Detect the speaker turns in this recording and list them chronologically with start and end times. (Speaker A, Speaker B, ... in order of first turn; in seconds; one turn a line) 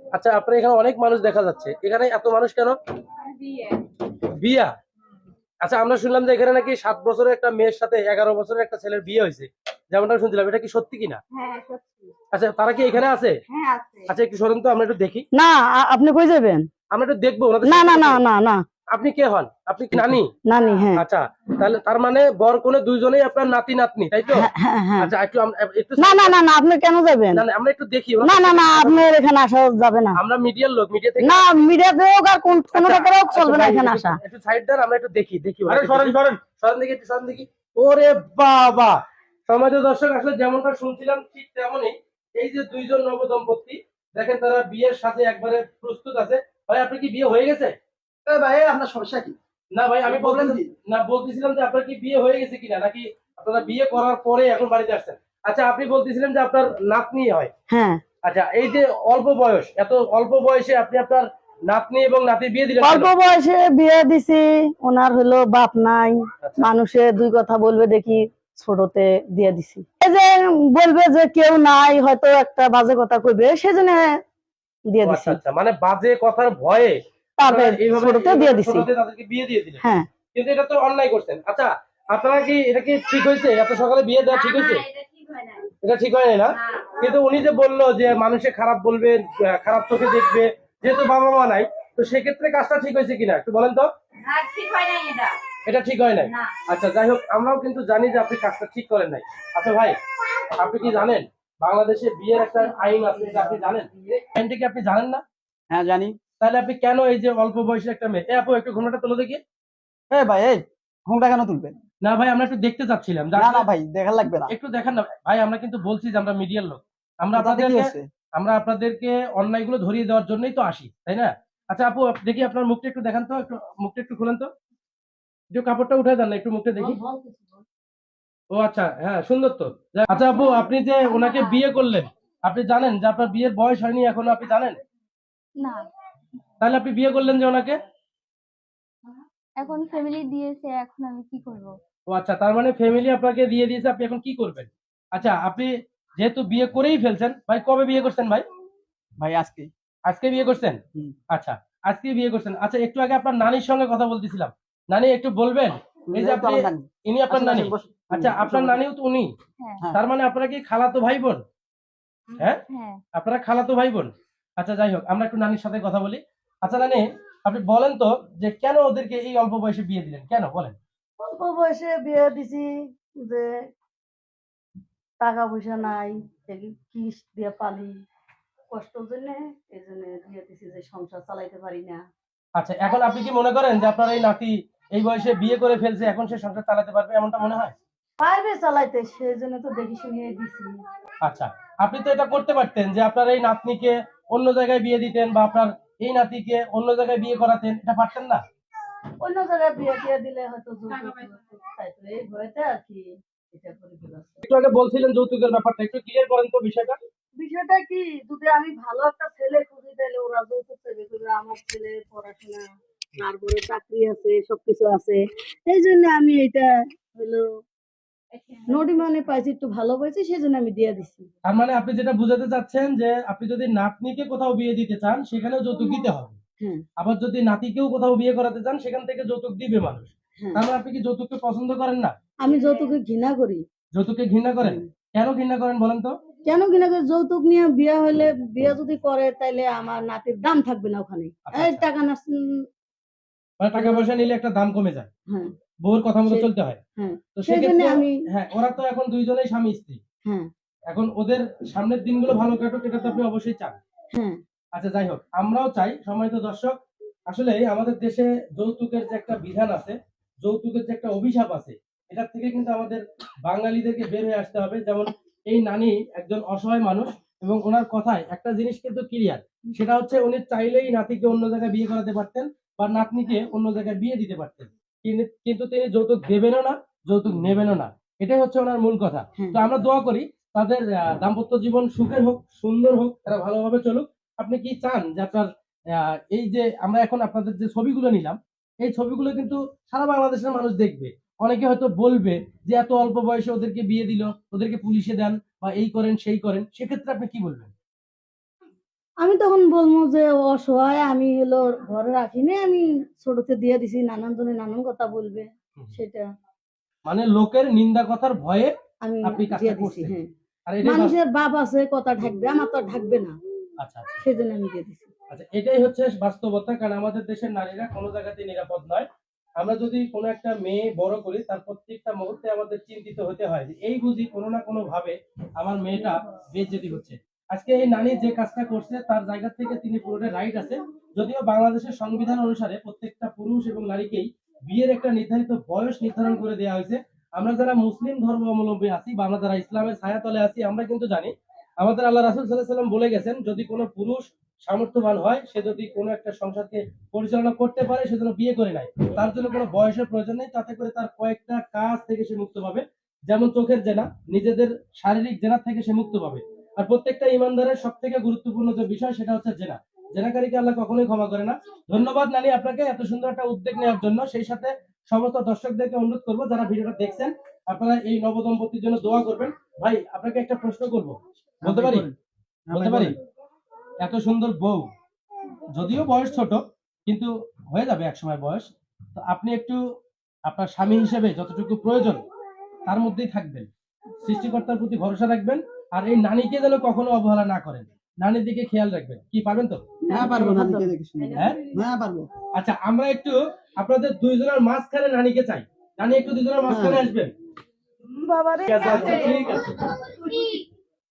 Speaker A: 0.1-2.8
Speaker B: 3.3-3.6
Speaker A: 4.2-4.7
Speaker A: 5.6-11.2
Speaker B: 11.3-12.1
Speaker A: 12.3-13.3
Speaker A: 14.1-15.2
Speaker C: 15.3-16.6
Speaker A: 16.9-18.2
Speaker C: 17.6-18.6
Speaker A: 18.9-20.3
Speaker C: 19.9-21.0
Speaker A: 20.9-26.4
Speaker C: 24.3-25.1
Speaker C: 26.0-27.4
Speaker A: 27.3-29.0
Speaker C: 28.2-30.2
Speaker A: 30.1-31.5
Speaker C: 31.2-34.2
Speaker A: 32.7-47.7
Speaker D: 35.7-36.4
Speaker D: 48.2-49.4
Speaker A: 49.7-57.5
Speaker D: 50.0-50.7
Speaker C: 57.7-58.0
Speaker A: 58.2-63.1
Speaker C: 62.8-74.1
Speaker A: 66.4-66.7
Speaker C: 74.9-75.4
Speaker A: 75.0-84.8
Speaker C: 77.4-78.9
Speaker C: 79.8-80.1
Speaker E: 84.3-85.6
Speaker A: 85.8-93.9
Speaker E: 94.2-95.4
Speaker A: 95.7-105.2
Speaker C: 102.8-103.7
Speaker D: 105.7-106.2
Speaker A: 106.4-109.4
Speaker D: 110.1-111.8
Speaker A: 112.0-113.7
Speaker D: 113.3-114.5
Speaker A: 114.5-124.5
Speaker D: 117.3-118.1
Speaker A: 125.5-127.0
Speaker C: 126.8-127.6
Speaker A: 128.5-134.8
Speaker B: 131.1-131.5
Speaker B: 135.6-135.8
Speaker A: 136.6-137.8
Speaker B: 139.6-141.8
Speaker A: 142.1-148.4
Speaker D: 149.2-149.7
Speaker A: 150.1-150.8
Speaker A: 151.3-159.3
Speaker D: 156.1-158.8
Speaker A: 159.9-161.4
Speaker A: 162.4-162.6
Speaker B: 162.7-163.0
Speaker A: 163.1-170.8
Speaker C: 171.2-173.5
Speaker C: 175.2-177.9
Speaker C: 178.7-182.0
Speaker A: 182.6-187.7
Speaker C: 188.2-190.7
Speaker A: 191.2-198.4
Speaker C: 199.2-204.4
Speaker A: 204.4-207.0
Speaker C: 207.4-212.6
Speaker C: 213.2-217.5
Speaker C: 218.7-221.3
Speaker A: 221.4-226.3
Speaker A: 227.0-232.1
Speaker C: 232.4-233.6
Speaker A: 233.9-236.1
Speaker C: 236.4-242.7
Speaker A: 241.4-241.8
Speaker A: 243.6-245.1
Speaker C: 243.7-244.1
Speaker A: 245.8-246.8
Speaker C: 246.2-248.2
Speaker A: 247.3-250.0
Speaker C: 250.2-250.5
Speaker A: 250.9-253.8
Speaker C: 254.1-254.4
Speaker A: 254.7-256.7
Speaker A: 257.3-297.7
Speaker C: 299.2-306.3
Speaker A: 307.1-308.7
Speaker C: 309.0-310.3
Speaker A: 309.2-310.1
Speaker A: 310.7-311.2
Speaker C: 310.8-313.4
Speaker A: 313.8-314.1
Speaker C: 314.2-315.1
Speaker A: 315.3-319.1
Speaker A: 319.6-372.1
Speaker D: 371.6-372.1
Speaker D: 372.7-373.1
Speaker A: 372.7-373.1
Speaker A: 374.0-374.9
Speaker A: 375.7-379.8
Speaker A: 380.4-382.2
Speaker A: 382.9-383.7
Speaker A: 384.2-389.8
Speaker C: 390.1-390.9
Speaker D: 390.1-392.3
Speaker A: 391.3-391.6
Speaker A: 392.5-397.3
Speaker C: 396.7-397.1
Speaker C: 398.1-399.4
Speaker A: 398.7-399.8